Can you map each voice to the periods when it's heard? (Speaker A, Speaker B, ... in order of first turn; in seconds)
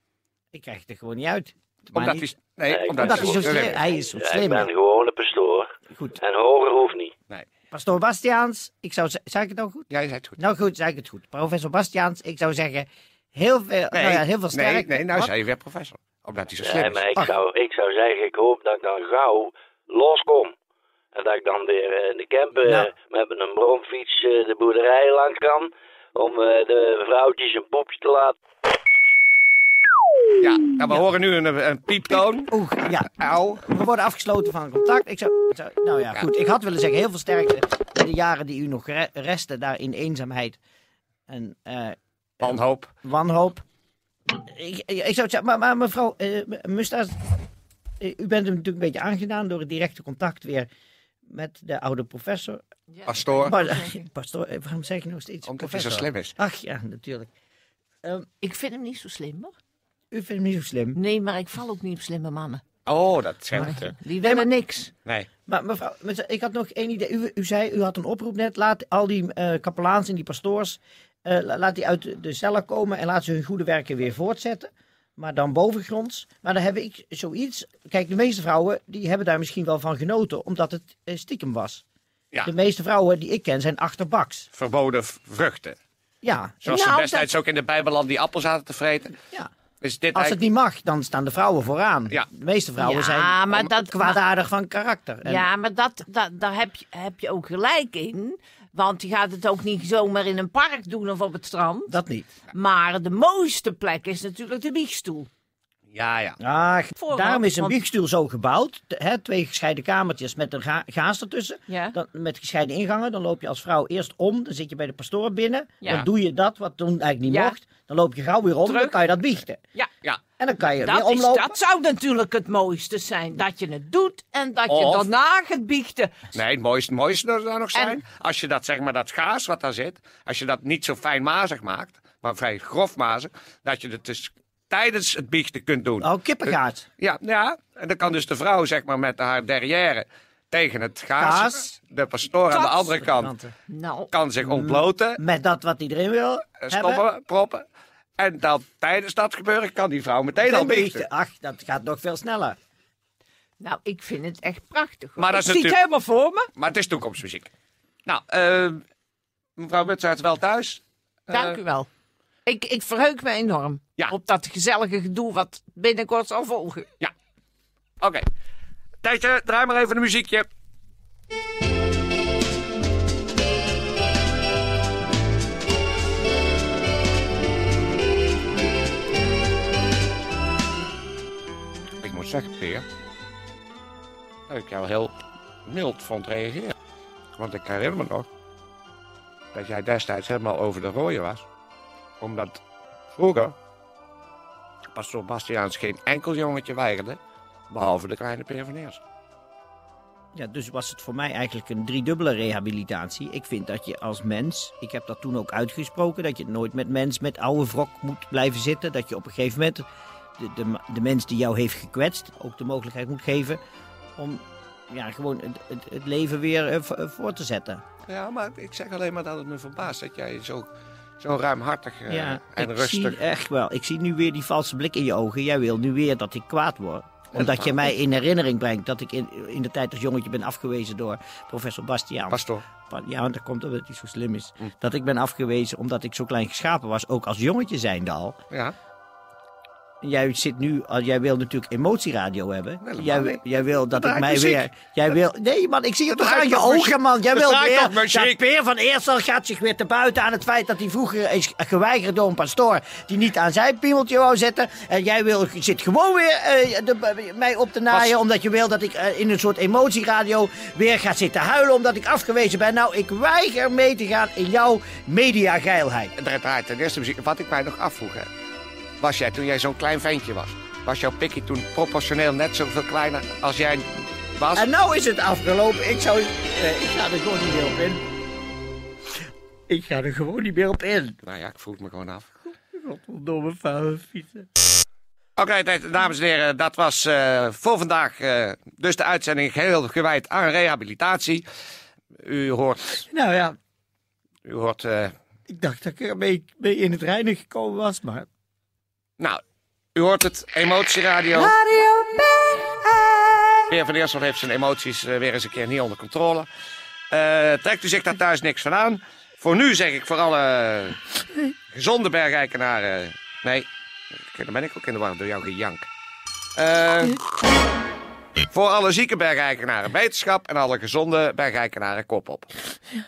Speaker A: 0.5-2.3, 3.0-4.7, 7.7-15.3, 32.5-40.6, 41.3-43.6, 44.3-47.1, 48.0-50.7, 51.3-52.6, 53.4-57.3, 60.1-61.0, 64.2-64.5, 65.5-81.8, 82.4-84.5, 86.2-87.0, 90.1-95.5, 101.9-102.3, 106.4-119.6, 120.4-121.6, 136.0-136.9, 141.2-141.7, 142.6-143.5, 144.4-147.0, 150.4-152.6, 200.3-209.8, 210.4-213.6, 214.2-217.8, 222.1-238.4, 240.0-266.1, 274.5-278.0, 279.7-281.2, 282.5-284.5, 293.1-293.6, 295.5-298.3, 301.3-303.7
Speaker B: 1.9-3.8, 9.9-10.4, 13.9-17.0, 30.4-32.5, 33.2-33.6, 42.4-42.9, 53.1-53.5, 55.5-56.3, 62.9-63.9, 84.5-85.8, 86.6-89.2, 89.8-90.4, 105.9-106.4, 124.7-125.0, 126.3-143.3, 144.1-145.2, 146.6-147.6, 148.2-151.1, 155.2-155.8, 156.6-157.5, 158.1-158.8, 159.6-161.6, 168.0-168.2, 169.0-170.5, 182.0-182.8, 184.5-186.7, 187.4-188.3, 189.5-191.4, 192.2-192.6, 193.1-193.5, 194.9-197.2, 197.7-199.0, 218.1-223.2, 227.3-227.8, 232.3-232.6, 242.8-244.7, 246.1-248.3, 257.9-258.2, 266.2-268.3, 269.0-274.6, 281.2-282.3, 285.4-291.4, 292.2-293.0, 294.4-295.1, 299.9-301.5, 303.7-306.5, 307.1-311.0, 311.7-315.9, 316.6-317.2, 318.5-322.5
Speaker C: 2.7-7.1, 16.6-20.5, 21.1-28.4
Speaker D: 52.9-53.9, 58.4-59.5, 60.9-62.6, 63.6-64.9, 86.9-87.2, 92.8-94.2, 95.2-101.9, 102.5-105.3, 107.0-107.8, 111.7-112.0, 117.2-117.5, 118.6-119.0, 120.8-126.1, 143.7-144.1, 153.6-156.5, 161.3-161.9, 162.4-166.9